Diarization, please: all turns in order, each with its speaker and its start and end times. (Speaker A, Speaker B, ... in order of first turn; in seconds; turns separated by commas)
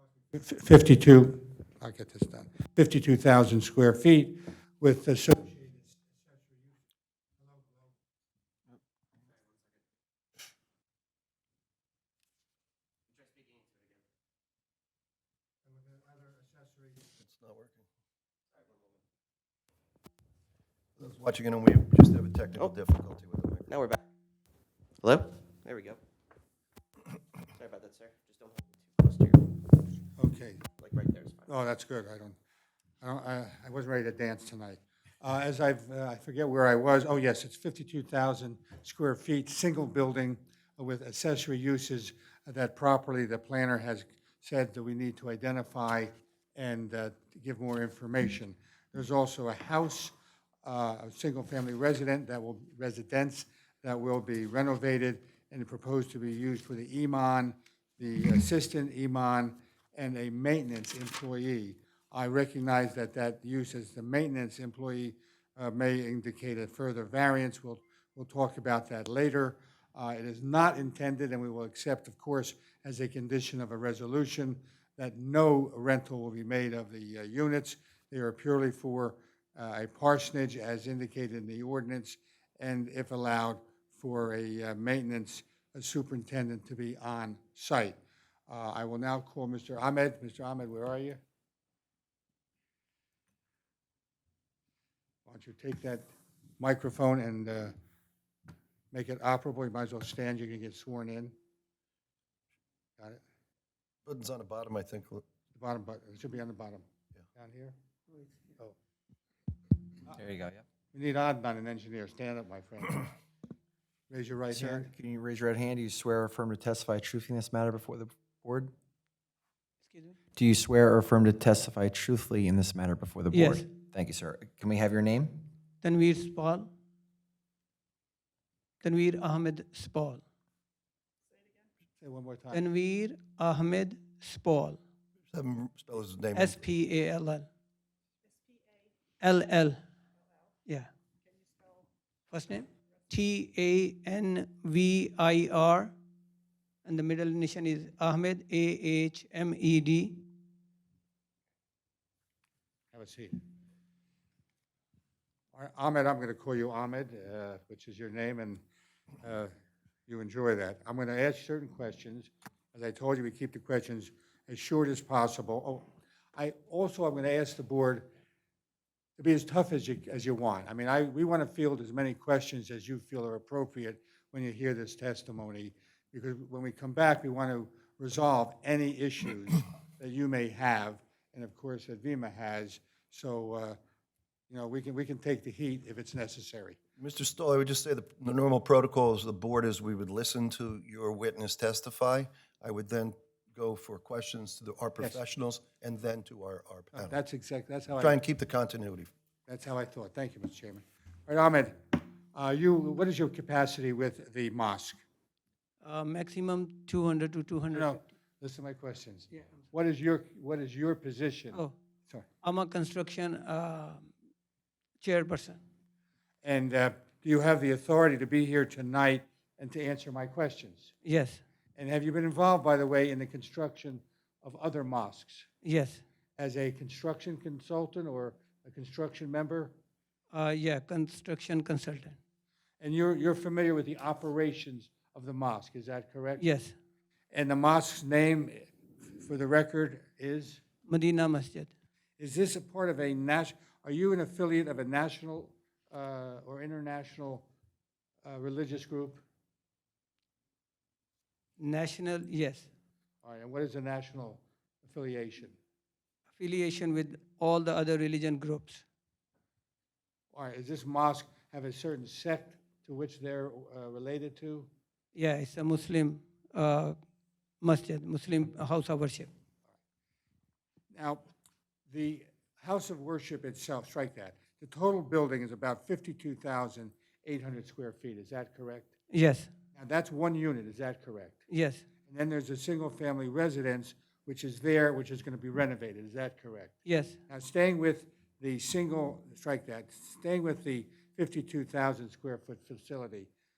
Speaker A: 0.3-6.0, Speaker A: 7.5-7.9, Speaker B: 13.1-14.0, Speaker A: 15.7-17.0, Speaker C: 17.2-17.9, Speaker B: 18.6-19.0, Speaker C: 21.0-23.7, Speaker B: 23.7-24.0, Speaker B: 25.0-26.0, Speaker B: 27.5-29.5, Speaker A: 30.2-30.6, Speaker B: 30.8-31.5, Speaker A: 31.5-32.4, Speaker A: 33.0-88.0, Speaker A: 88.5-91.2, Speaker A: 95.2-96.1, Speaker A: 96.6-97.8, Speaker A: 98.9-101.3, Speaker C: 104.1-105.2, Speaker A: 105.5-107.8, Speaker D: 110.1-110.6, Speaker A: 110.9-113.1, Speaker A: 114.1-114.9, Speaker D: 114.5-118.7, Speaker E: 119.8-120.2, Speaker D: 120.3-125.3, Speaker E: 123.3-123.7, Speaker E: 125.8-126.7, Speaker E: 128.8-130.2, Speaker A: 132.0-132.6, Speaker E: 132.5-134.8, Speaker C: 135.3-136.6, Speaker E: 136.3-137.5, Speaker E: 139.2-139.8, Speaker E: 142.3-145.9, Speaker E: 146.8-150.2, Speaker A: 152.9-153.4, Speaker A: 155.5-158.6, Speaker A: 159.2-159.5, Speaker A: 160.1-168.1, Speaker A: 169.2-183.8, Speaker A: 184.5-186.8, Speaker C: 187.0-197.2, Speaker A: 196.9-198.2, Speaker C: 198.0-199.1, Speaker A: 199.5-205.0, Speaker E: 205.8-208.0, Speaker A: 207.7-212.2, Speaker E: 212.4-214.1, Speaker E: 215.0-215.6, Speaker A: 216.4-220.9, Speaker E: 221.1-221.4, Speaker A: 221.8-225.5, Speaker E: 225.6-226.0, Speaker A: 226.4-229.7, Speaker E: 230.3-232.2, Speaker A: 232.8-236.4, Speaker E: 236.4-236.7, Speaker A: 237.3-240.6, Speaker E: 240.9-241.7, Speaker A: 242.2-247.5, Speaker A: 248.2-249.2, Speaker E: 251.6-252.7, Speaker A: 253.2-255.6, Speaker E: 256.4-258.8, Speaker A: 260.3-264.7, Speaker E: 265.1-267.0, Speaker E: 267.6-269.3, Speaker A: 270.9-271.2, Speaker A: 271.9-278.9, Speaker E: 279.1-279.5, Speaker A: 279.8-281.4, Speaker E: 281.5-281.9, Speaker A: 282.1-286.8, Speaker E: 286.9-287.2, Speaker A: 287.3-293.3